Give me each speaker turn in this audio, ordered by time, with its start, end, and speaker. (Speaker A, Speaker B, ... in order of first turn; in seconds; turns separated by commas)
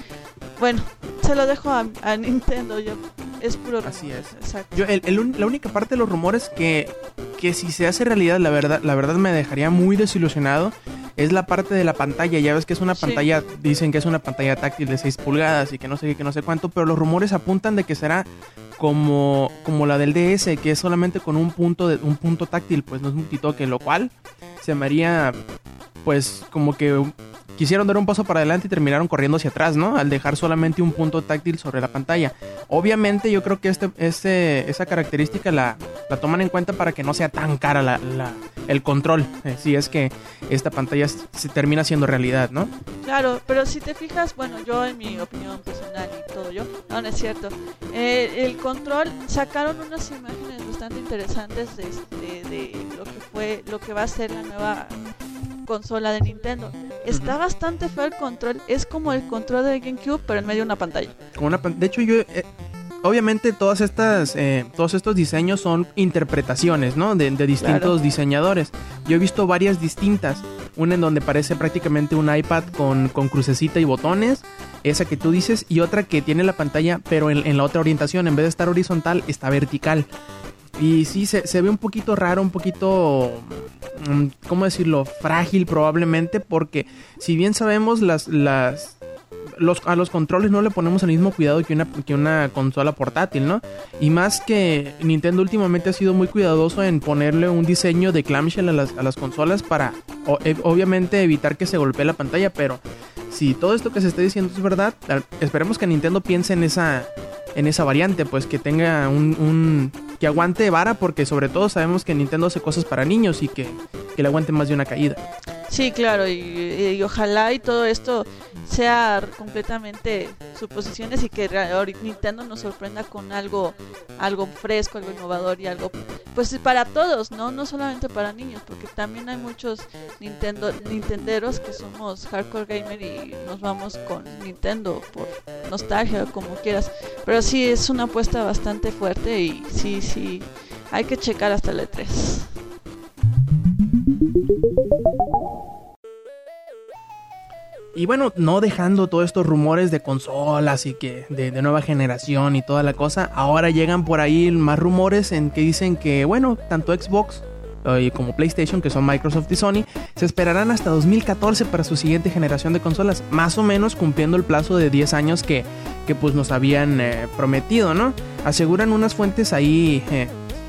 Speaker A: 0.6-4.8, Speaker B: 3.8-25.4, Speaker A: 12.9-13.2, Speaker B: 26.0-42.7, Speaker A: 43.0-55.0, Speaker A: 55.6-61.2, Speaker B: 57.1-57.3, Speaker B: 61.3-62.5, Speaker B: 63.0-80.1, Speaker A: 67.6-67.9, Speaker B: 80.8-89.0, Speaker B: 89.5-115.2, Speaker A: 115.7-142.5, Speaker B: 147.9-170.3